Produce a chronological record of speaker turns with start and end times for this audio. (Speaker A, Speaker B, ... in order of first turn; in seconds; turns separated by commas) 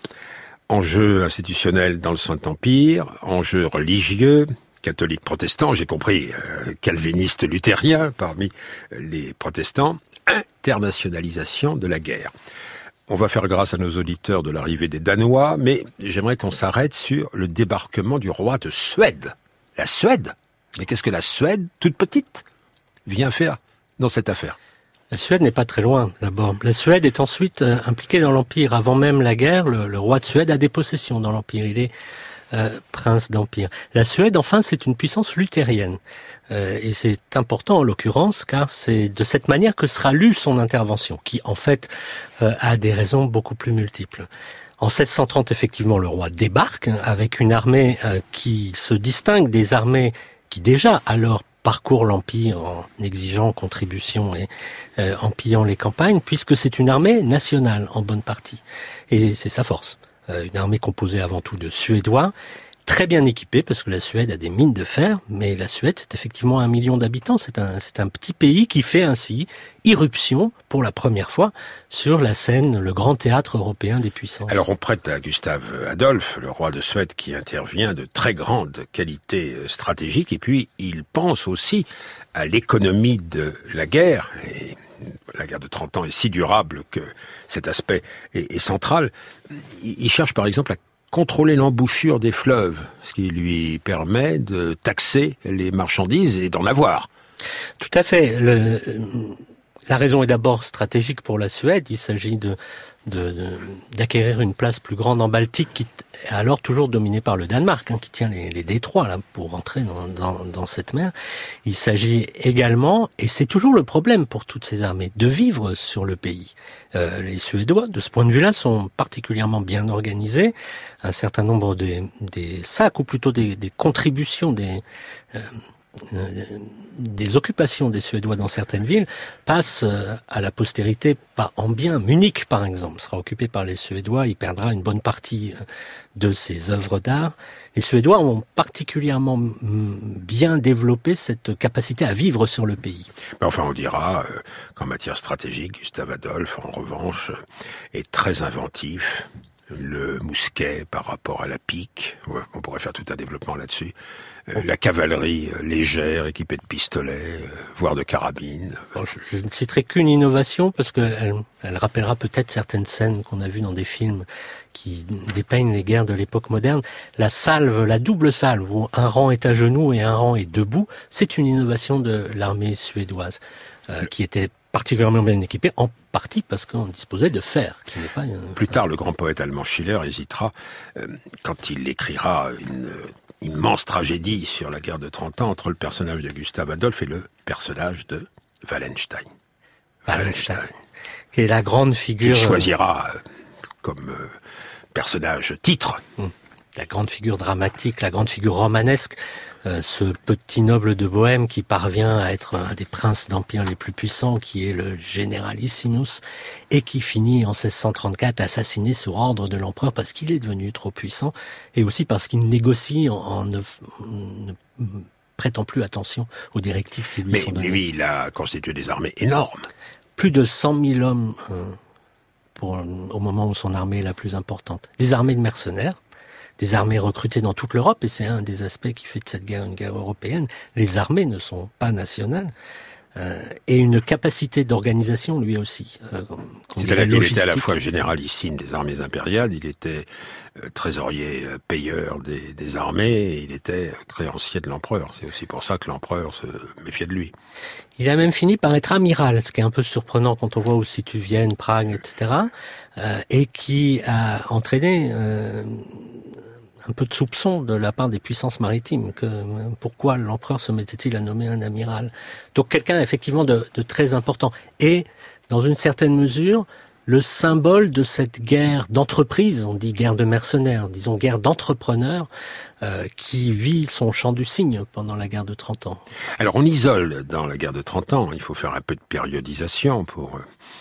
Speaker A: 0.7-12.3, Speaker A: 13.1-22.4, Speaker A: 23.1-24.6, Speaker B: 25.1-31.9, Speaker B: 32.5-36.0, Speaker B: 36.5-44.3, Speaker B: 44.8-62.3, Speaker B: 62.9-74.6, Speaker A: 74.5-97.1, Speaker B: 97.8-111.1, Speaker B: 111.7-124.8, Speaker B: 126.1-135.6, Speaker B: 136.2-143.1, Speaker A: 143.4-147.4, Speaker A: 147.9-154.0, Speaker A: 154.5-158.9, Speaker B: 158.9-178.7, Speaker A: 178.6-189.3, Speaker B: 190.1-190.7, Speaker A: 190.1-190.7, Speaker B: 191.3-192.7, Speaker A: 192.2-193.2, Speaker A: 193.8-194.4, Speaker A: 194.9-196.0, Speaker B: 196.2-217.8, Speaker A: 217.3-219.7, Speaker B: 220.2-221.8, Speaker B: 222.6-226.0, Speaker B: 226.6-232.5, Speaker B: 233.2-237.8, Speaker A: 236.8-247.3, Speaker B: 248.0-256.2, Speaker B: 256.9-272.3, Speaker B: 272.8-276.0, Speaker A: 276.4-280.4